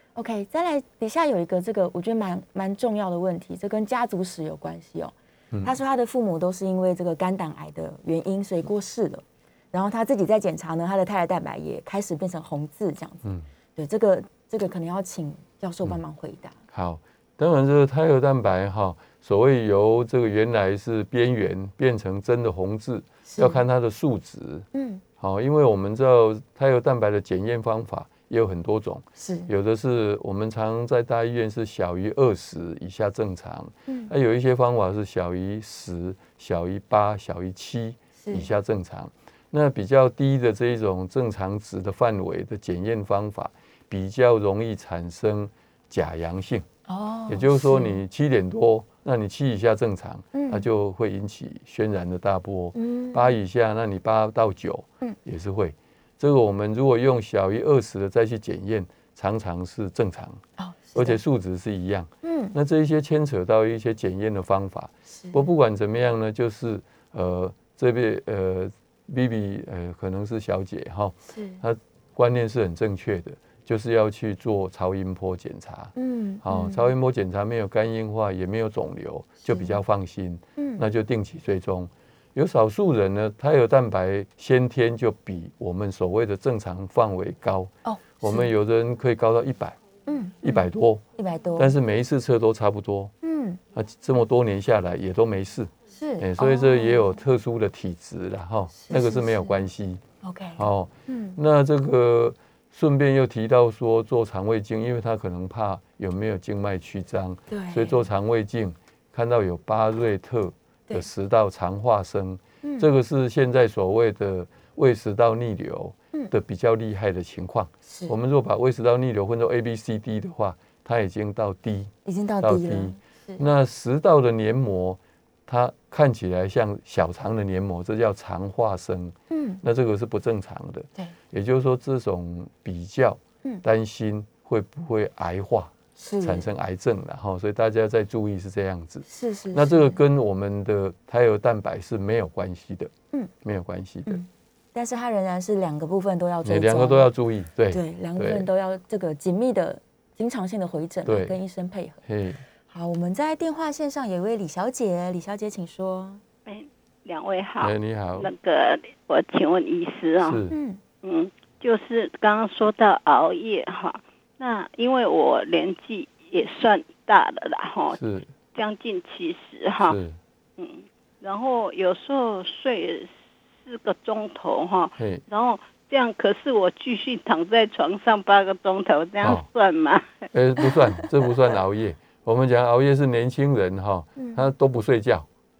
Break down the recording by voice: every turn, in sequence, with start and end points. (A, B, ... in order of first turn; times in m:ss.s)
0:00.2-0:16.6 A
0:16.7-0:24.6 B
0:23.2-0:23.6 A
0:24.7-0:25.0 A
0:25.2-0:46.6 B
0:29.2-0:29.5 A
0:33.9-0:34.1 A
0:38.2-0:38.5 A
0:46.9-0:48.0 A
0:47.3-1:00.4 B
0:50.3-0:50.6 A
0:52.7-0:53.3 A
1:00.6-1:01.2 A
1:00.9-1:29.8 B
1:02.2-1:02.5 A
1:05.1-1:05.5 A
1:11.3-1:11.6 A
1:16.0-1:16.9 A
1:19.4-1:19.8 A
1:20.6-1:20.8 A
1:27.8-1:28.5 A
1:30.1-1:31.8 A
1:30.4-1:31.0 B
1:31.6-1:33.1 B
1:33.2-1:33.6 A
1:33.7-1:40.0 B
1:35.9-1:37.1 A
1:38.7-1:39.6 A
1:40.2-1:41.4 A
1:40.6-2:22.9 B
1:47.5-1:48.0 A
1:52.6-1:52.9 A
1:57.9-1:58.1 A
2:02.0-2:03.4 A
2:09.3-2:09.6 A
2:16.0-2:16.5 A
2:19.1-2:20.0 A
2:23.4-2:24.2 B
2:24.0-2:27.1 A
2:26.4-2:28.4 B
2:27.7-2:32.0 A
2:31.0-2:31.4 B
2:32.0-2:32.4 B
2:32.7-2:36.2 A
2:36.4-2:40.4 C
2:37.6-2:38.3 B
2:40.2-2:40.5 B
2:40.5-2:40.8 A
2:41.0-2:48.0 C
2:47.9-2:48.3 B
2:48.5-2:50.0 C
2:49.8-2:50.2 B
2:50.6-3:00.3 C
2:59.2-2:59.4 B
3:00.3-3:05.3 B
3:04.2-3:04.5 A